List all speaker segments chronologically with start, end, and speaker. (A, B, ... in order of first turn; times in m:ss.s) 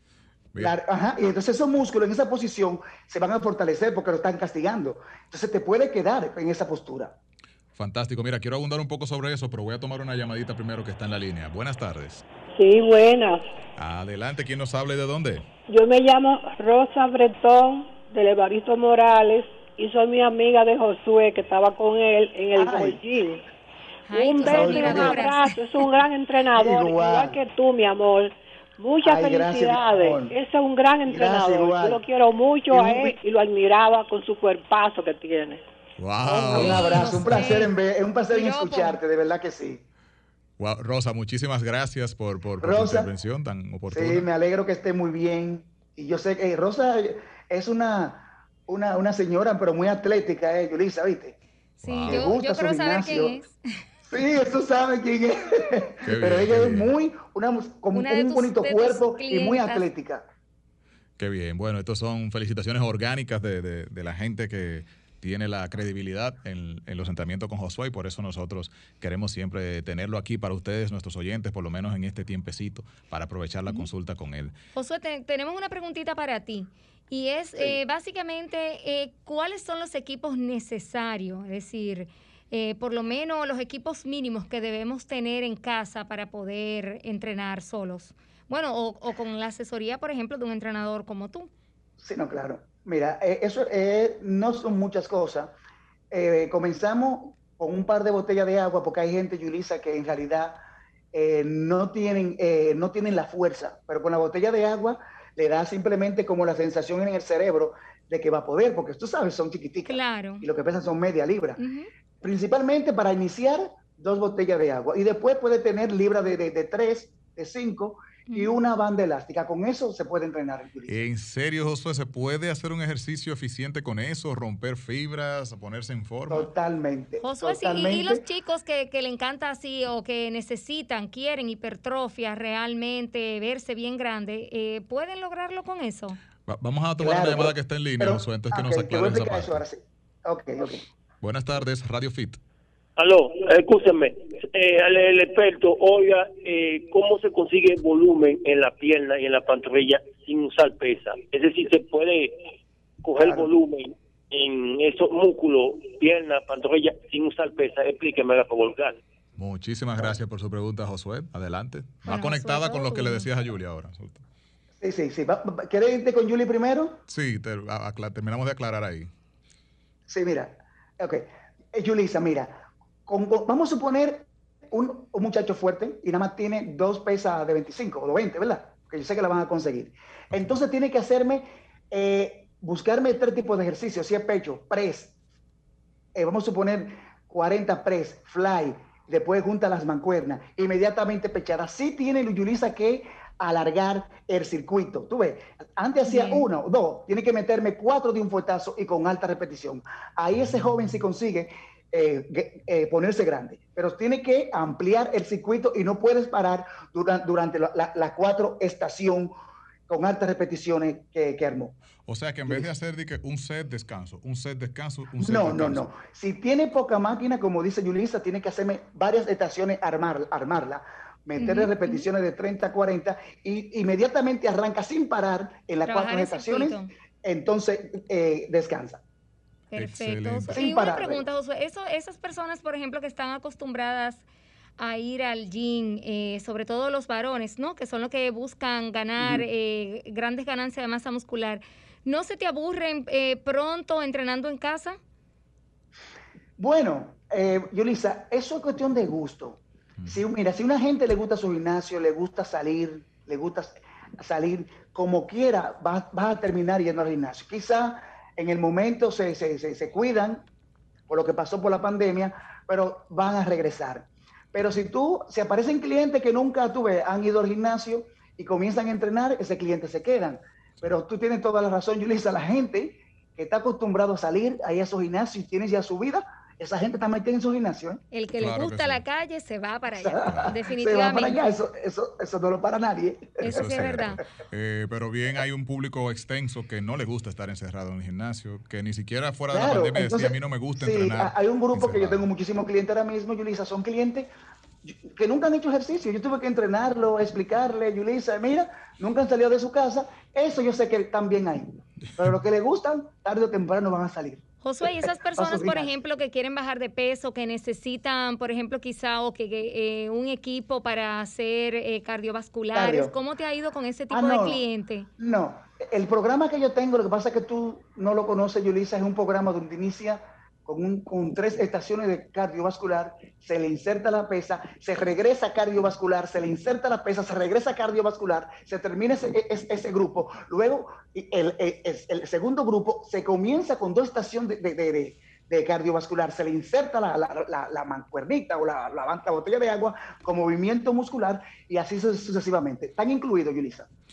0:00.6-0:07.2 A
0:07.8-0:12.2 B
0:12.6-0:13.4 C
0:13.8-0:15.5 B
0:15.7-0:23.4 C
0:22.5-0:23.0 A
0:24.1-0:25.4 D
0:24.1-0:35.6 C
0:24.4-0:25.3 A
0:26.5-0:27.4 A
0:29.0-0:30.4 A
0:31.0-0:32.0 A
0:32.7-0:33.2 A
0:36.0-0:37.3 B
0:36.2-0:36.7 C
0:36.5-0:39.8 A
0:36.5-0:37.7 D
0:38.3-0:39.0 D
0:40.6-0:44.3 B
0:42.6-0:43.1 A
0:43.9-0:51.4 A
0:51.8-0:53.6 D
0:51.8-0:52.3 B
0:52.0-0:53.4 A
0:54.1-1:00.2 A
0:56.0-0:56.9 B
0:57.9-0:59.9 D
1:01.2-1:14.5 B
1:14.7-1:31.5 D
1:32.0-1:35.5 A
1:36.1-1:40.6 A
1:41.1-1:51.6 A
1:49.9-1:50.5 D
1:51.6-1:51.9 D
1:52.2-2:01.0 A
1:58.3-1:58.5 D
2:00.9-2:06.5 B
2:06.3-2:08.2 A
2:07.2-2:16.2 D
2:16.5-2:19.6 B
2:17.0-2:20.9 A
2:21.2-2:22.4 B
2:23.0-2:32.4 E
2:33.0-2:39.0 E
2:33.2-2:33.5 A
2:39.4-2:44.2 B
2:42.0-2:43.3 D
2:44.8-2:47.0 A
2:47.1-2:49.1 B
2:50.1-3:05.2 A
3:06.2-3:29.3 A
3:16.1-3:16.5 D
3:29.9-3:31.8 A
3:32.1-3:35.9 B
3:35.2-3:49.0 A
3:41.4-3:42.1 D
3:45.8-3:46.9 D
3:49.7-3:54.2 D
3:49.7-3:50.6 B
3:50.5-3:51.2 A
3:54.8-4:05.0 D
3:59.2-3:59.4 A
4:06.6-4:20.4 A
4:21.1-4:38.0 A
4:38.1-4:41.4 D
4:38.4-4:39.0 B
4:39.9-4:43.9 A
4:40.2-4:40.5 B
4:43.4-4:44.2 D
4:43.4-4:52.2 B
4:49.5-4:54.3 A
4:54.8-5:06.0 A
5:04.6-5:15.1 D
5:12.7-5:13.2 A
5:14.1-5:14.6 A
5:15.2-5:43.9 A